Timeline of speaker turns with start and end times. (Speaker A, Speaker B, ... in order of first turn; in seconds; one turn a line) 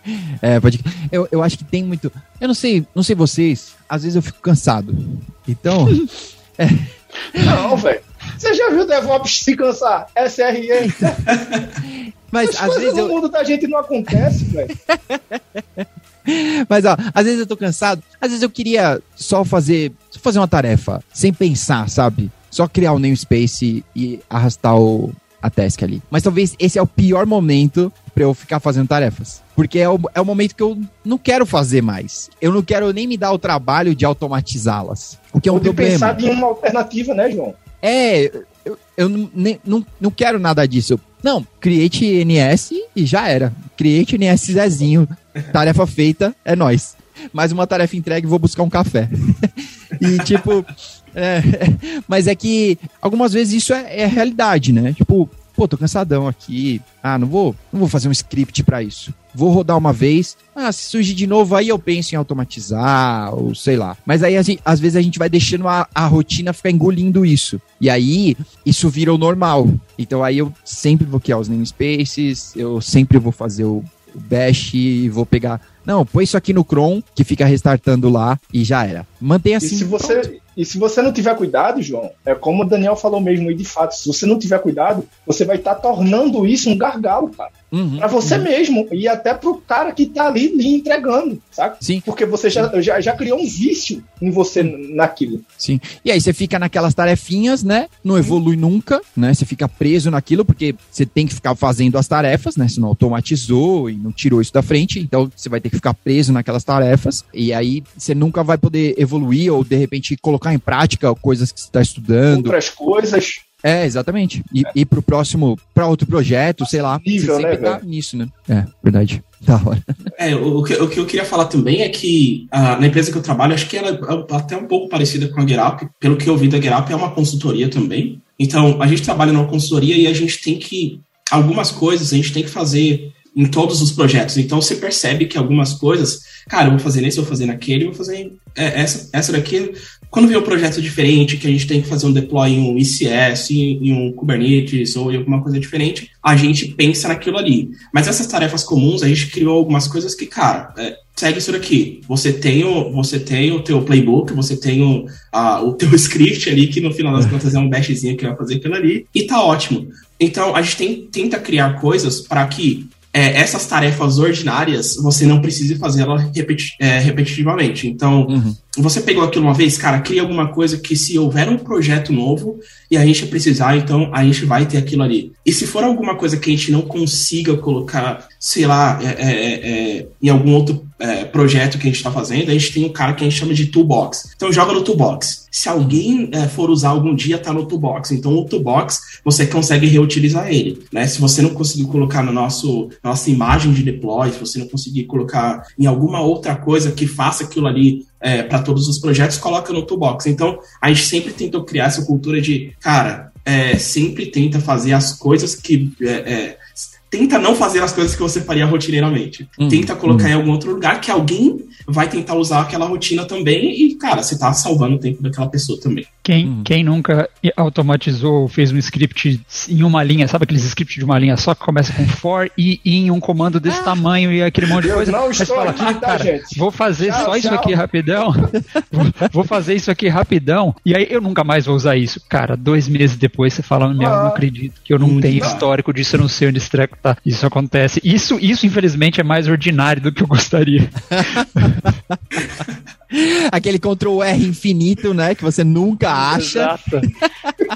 Speaker A: 0.4-7.8
Speaker B: 7.4-11.2
Speaker A: 10.8-11.2
Speaker C: 11.3-11.7
Speaker A: 11.9-13.1
Speaker B: 12.4-14.7
Speaker A: 14.8-36.2
Speaker B: 35.5-37.6
Speaker A: 37.8-80.3
Speaker C: 50.0-50.5
Speaker B: 79.6-95.4
Speaker A: 87.7-88.5
Speaker A: 91.8-92.7
Speaker A: 95.6-112.6
Speaker B: 112.3-113.4
Speaker A: 113.6-120.1
Speaker B: 116.7-117.8
Speaker C: 120.2-216.1
Speaker A: 168.3-168.6
Speaker A: 209.6-210.3
Speaker D: 216.2-241.8
Speaker A: 216.4-216.7
Speaker A: 223.7-224.0
Speaker B: 224.8-227.8
Speaker B: 234.0-234.4
Speaker C: 235.0-235.7
Speaker A: 241.1-242.2
Speaker A: 243.1-247.5
Speaker D: 246.1-247.1